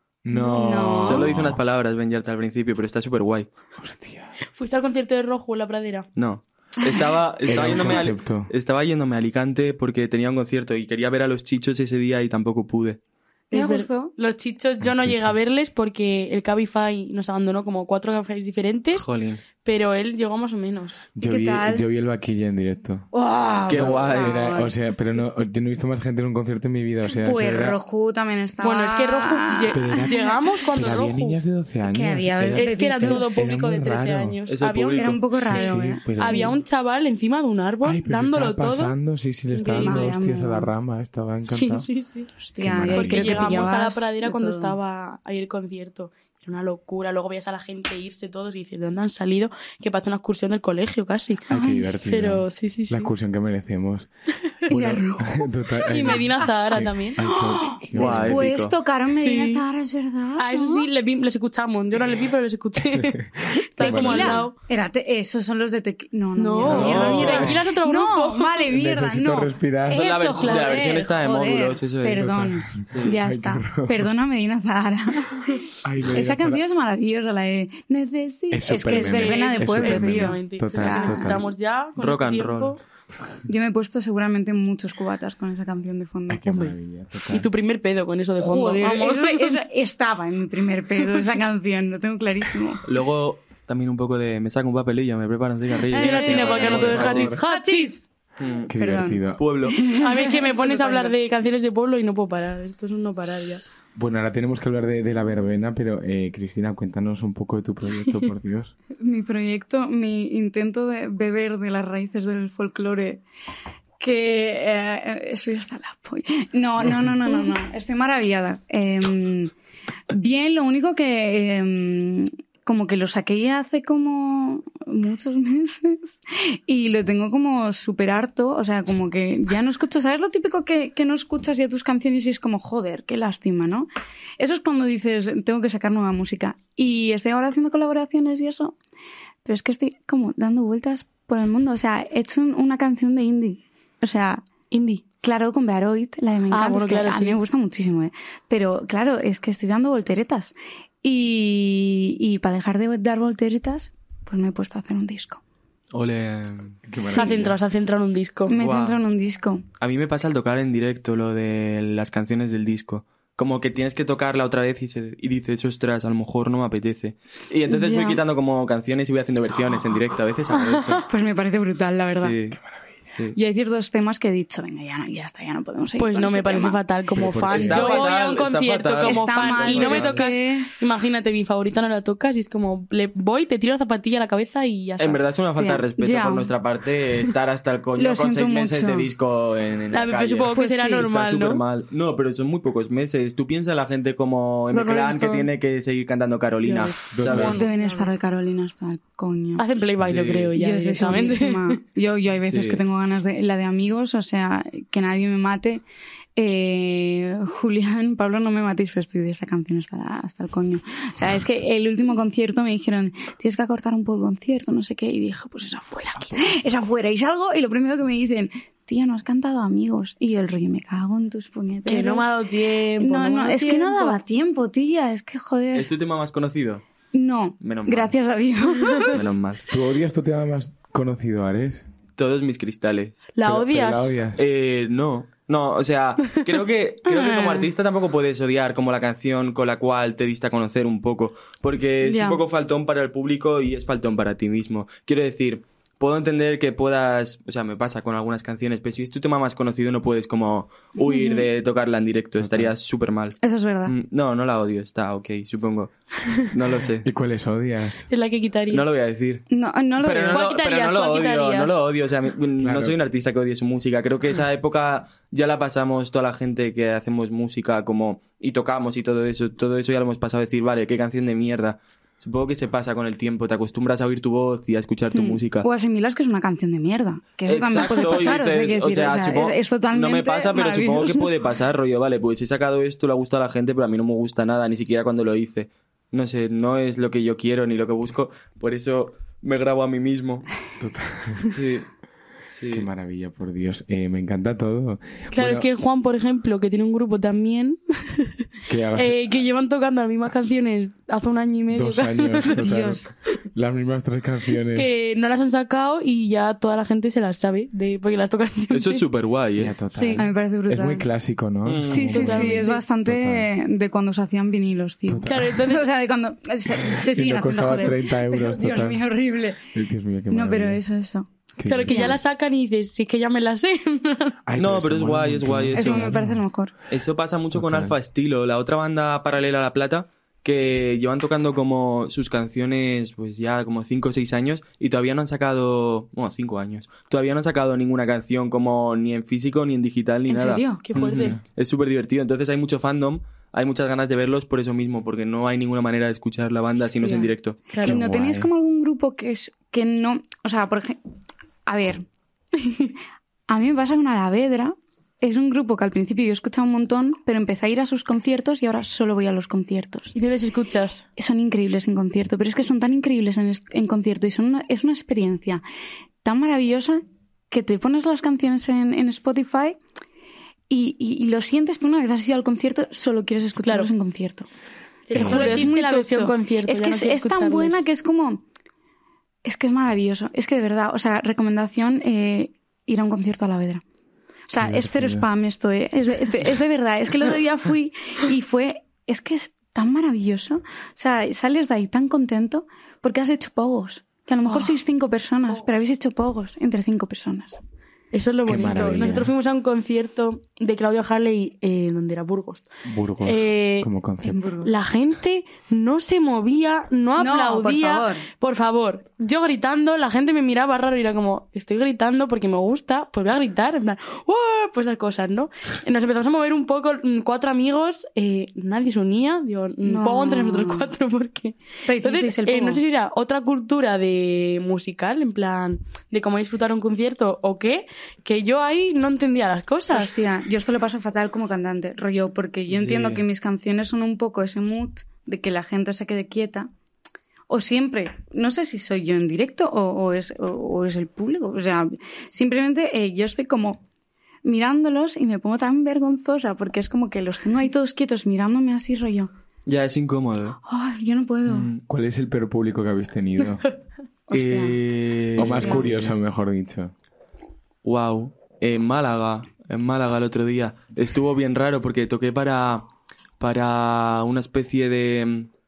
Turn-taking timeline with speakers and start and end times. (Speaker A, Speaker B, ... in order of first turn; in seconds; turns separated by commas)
Speaker A: 0.2-1.6, Speaker B: 0.3-0.7, Speaker C: 0.5-1.3, Speaker D: 0.7-3.5, Speaker A: 3.8-4.3, Speaker B: 4.5-6.1, Speaker D: 6.2-13.0, Speaker A: 7.5-8.5, Speaker C: 13.5-14.1, Speaker B: 13.5-19.1, Speaker A: 14.8-15.3, Speaker D: 18.9-19.4, Speaker B: 19.6-21.0, Speaker A: 21.1-23.1, Speaker C: 21.2-21.8, Speaker C: 23.1-24.7, Speaker D: 23.7-24.5, Speaker A: 23.7-27.8, Speaker C: 27.1-31.0, Speaker B: 28.6-31.4, Speaker A: 29.7-30.1, Speaker A: 30.7-34.4, Speaker C: 31.9-33.4, Speaker B: 32.5-39.0, Speaker D: 34.5-35.2, Speaker C: 35.0-36.4, Speaker A: 35.4-36.6, Speaker A: 37.8-41.9, Speaker B: 39.5-40.1, Speaker C: 39.8-40.7, Speaker B: 41.5-42.3, Speaker C: 42.4-44.8, Speaker A: 42.6-43.8, Speaker B: 42.9-51.5, Speaker A: 51.5-54.1, Speaker C: 51.5-52.0, Speaker B: 52.0-53.1, Speaker A: 54.7-58.5, Speaker C: 54.7-55.3, Speaker B: 55.9-57.2, Speaker C: 57.2-60.9, Speaker D: 57.9-58.7, Speaker B: 59.1-59.6, Speaker B: 60.4-64.5, Speaker A: 62.8-64.5, Speaker C: 63.8-81.4, Speaker B: 66.4-68.6, Speaker D: 66.6-67.5, Speaker A: 66.6-67.6, Speaker A: 68.7-70.1, Speaker D: 69.9-72.3, Speaker B: 70.4-70.7, Speaker A: 72.2-74.1, Speaker D: 72.9-73.2, Speaker A: 75.8-76.6, Speaker A: 78.5-81.4, Speaker B: 78.8-82.8, Speaker D: 82.0-82.8, Speaker C: 83.5-86.7, Speaker A: 86.3-87.5, Speaker B: 86.5-86.7, Speaker B: 87.3-89.6, Speaker C: 88.4-92.8, Speaker D: 92.8-97.4, Speaker C: 95.9-98.0, Speaker B: 95.9-97.9, Speaker A: 96.8-97.4, Speaker D: 98.4-98.7, Speaker A: 98.7-99.5, Speaker C: 98.7-101.1, Speaker D: 99.3-99.9, Speaker B: 99.8-103.6, Speaker A: 103.9-108.7, Speaker C: 109.0-113.2, Speaker C: 114.0-119.5, Speaker C: 120.1-138.8, Speaker C: 139.4-144.4, Speaker B: 144.7-145.0, Speaker C: 145.2-155.4, Speaker B: 146.5-147.4, Speaker D: 155.9-156.8, Speaker A: 156.8-157.5, Speaker C: 157.0-157.5, Speaker B: 157.0-158.6, Speaker C: 158.5-159.6, Speaker D: 158.6-159.0, Speaker D: 159.8-171.1, Speaker C: 167.7-168.2, Speaker B: 170.7-171.0, Speaker C: 171.1-172.4, Speaker D: 172.1-172.6, Speaker D: 173.1-173.4, Speaker C: 173.3-176.8, Speaker B: 176.0-185.2, Speaker A: 177.1-177.9, Speaker D: 177.5-180.2, Speaker C: 179.0-180.7, Speaker D: 185.0-197.6, Speaker C: 185.5-186.5, Speaker C: 187.9-189.1, Speaker B: 189.9-191.6, Speaker C: 190.5-191.1, Speaker B: 194.7-195.5, Speaker B: 196.6-198.1, Speaker A: 197.1-197.6, Speaker C: 197.3-199.6, Speaker B: 199.6-201.8, Speaker D: 200.0-201.3, Speaker C: 200.5-205.8, Speaker D: 202.4-202.8, Speaker C: 206.3-222.4, Speaker A: 216.3-216.5, Speaker B: 221.8-224.2, Speaker C: 223.0-225.9, Speaker D: 225.7-226.8, Speaker C: 227.1-229.2, Speaker D: 227.6-228.1, Speaker D: 229.0-229.6, Speaker A: 229.7-231.8, Speaker D: 232.2-233.2, Speaker B: 233.3-234.1, Speaker A: 233.4-234.4, Speaker D: 234.3-257.1, Speaker C: 237.1-237.7, Speaker C: 242.0-242.4, Speaker C: 251.0-251.5, Speaker A: 252.3-252.7, Speaker C: 253.4-253.9, Speaker A: 257.0-258.1, Speaker B: 258.1-258.8, Speaker D: 258.7-259.4, Speaker C: 259.5-260.4, Speaker D: 260.0-275.7, Speaker B: 260.3-261.8, Speaker A: 262.6-263.0, Speaker C: 275.1-281.3, Speaker D: 277.4-290.5, Speaker A: 290.8-291.5, Speaker D: 291.4-291.9, Speaker D: 292.5-292.9, Speaker A: 292.7-295.7, Speaker B: 295.3-298.3, Speaker A: 298.6-299.2, Speaker B: 298.9-302.7, Speaker A: 301.7-304.9, Speaker C: 302.5-303.1, Speaker B: 304.7-309.0, Speaker D: 308.7-309.7, Speaker A: 309.6-313.5, Speaker B: 309.9-310.2, Speaker C: 310.1-311.1, Speaker D: 311.6-312.2, Speaker C: 311.9-319.7, Speaker B: 312.1-312.8, Speaker A: 315.1-315.5, Speaker B: 315.2-315.8, Speaker A: 316.8-319.0, Speaker A: 319.7-320.8, Speaker C: 320.3-321.3, Speaker A: 321.6-322.2, Speaker B: 321.6-324.3, Speaker C: 321.8-322.2, Speaker A: 324.4-326.4, Speaker D: 324.6-326.1, Speaker C: 325.7-326.7, Speaker D: 326.9-347.6, Speaker A: 327.5-327.9, Speaker C: 340.3-340.8, Speaker B: 340.8-341.4, Speaker A: 341.1-341.4, Speaker C: 347.0-351.0, Speaker B: 347.7-348.0, Speaker A: 347.8-348.5, Speaker C: 351.6-352.1, Speaker C: 353.5-360.1, Speaker B: 360.1-361.0, Speaker C: 361.2-365.6, Speaker C: 366.2-369.8, Speaker C: 370.7-374.5, Speaker B: 373.6-373.9, Speaker B: 375.1-377.8, Speaker C: 375.1-378.4, Speaker A: 375.1-375.7, Speaker C: 379.4-383.8, Speaker C: 384.5-397.6, Speaker A: 384.6-385.3, Speaker B: 394.4-394.7, Speaker B: 398.1-402.7, Speaker A: 398.4-399.3, Speaker A: 402.8-404.4, Speaker B: 403.2-403.9, Speaker C: 404.2-404.7, Speaker B: 404.6-430.2, Speaker C: 407.2-408.3, Speaker C: 419.8-420.9, Speaker C: 421.9-422.8, Speaker C: 429.9-436.7, Speaker D: 432.7-433.2, Speaker C: 437.5-443.8, Speaker C: 444.4-449.3, Speaker D: 449.6-450.6, Speaker C: 450.6-451.7, Speaker D: 451.5-451.8, Speaker A: 451.8-453.6, Speaker C: 454.3-454.8, Speaker D: 454.3-456.1, Speaker C: 455.4-455.9, Speaker A: 455.4-456.9, Speaker D: 457.8-462.9, Speaker D: 463.4-465.5